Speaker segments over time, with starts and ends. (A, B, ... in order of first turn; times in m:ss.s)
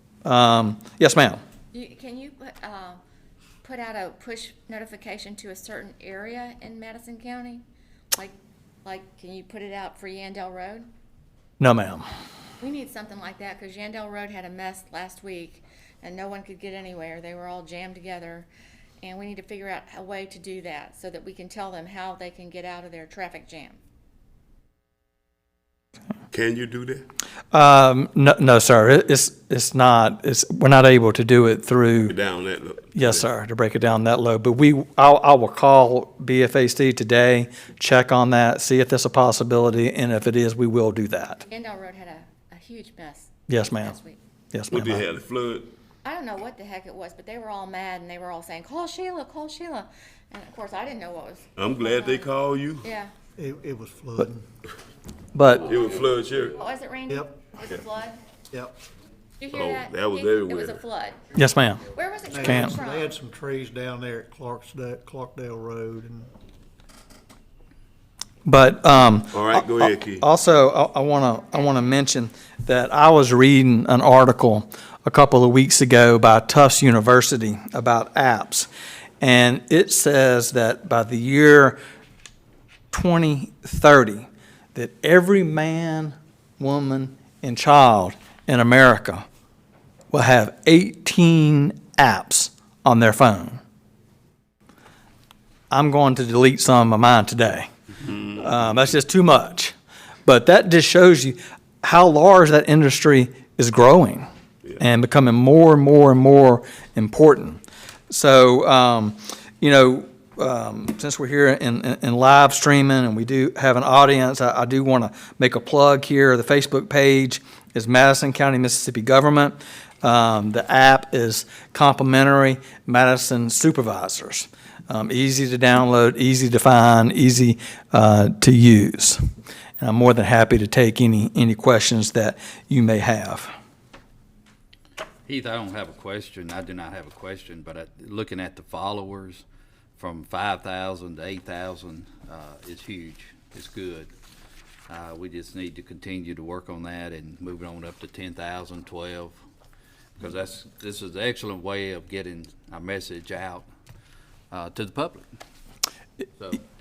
0:00.2-0:01.4 A
0:01.7-0:03.0 B
0:03.6-0:10.9 B
0:11.6-0:12.0 A
0:12.6-0:18.5 B
0:19.0-0:23.8 B
0:26.3-0:27.0 C
0:27.5-0:32.1 A
0:32.1-0:33.2 C
0:32.9-0:41.4 A
0:41.4-0:44.2 B
0:43.5-0:44.0 A
0:44.5-0:45.0 A
0:44.7-0:45.7 C
0:46.0-0:52.3 B
0:51.6-0:52.8 C
0:52.8-0:53.1 B
0:53.4-0:54.4 D
0:55.3-0:55.7 A
0:55.6-0:56.6 C
0:56.5-0:58.2 B
0:57.1-0:57.5 D
0:59.4-1:01.2 B
0:59.5-1:00.8 C
1:01.3-1:01.8 A
1:01.9-1:03.1 B
1:02.3-1:06.3 D
1:02.4-1:02.7 A
1:08.4-1:18.7 A
1:09.3-1:10.2 C
1:19.2-1:21.8 A
1:22.9-1:29.2 A
1:30.1-1:33.6 A
1:35.7-1:37.7 A
1:38.0-1:38.4 C
1:38.4-1:39.7 A
1:40.2-1:44.2 A
1:44.8-2:09.2 A
2:09.8-2:13.5 A
2:15.3-2:19.4 E
2:20.0-2:24.1 E
2:24.9-2:29.4 E
2:30.2-2:33.7 E
2:34.5-2:35.3 E
2:36.4-2:36.6 E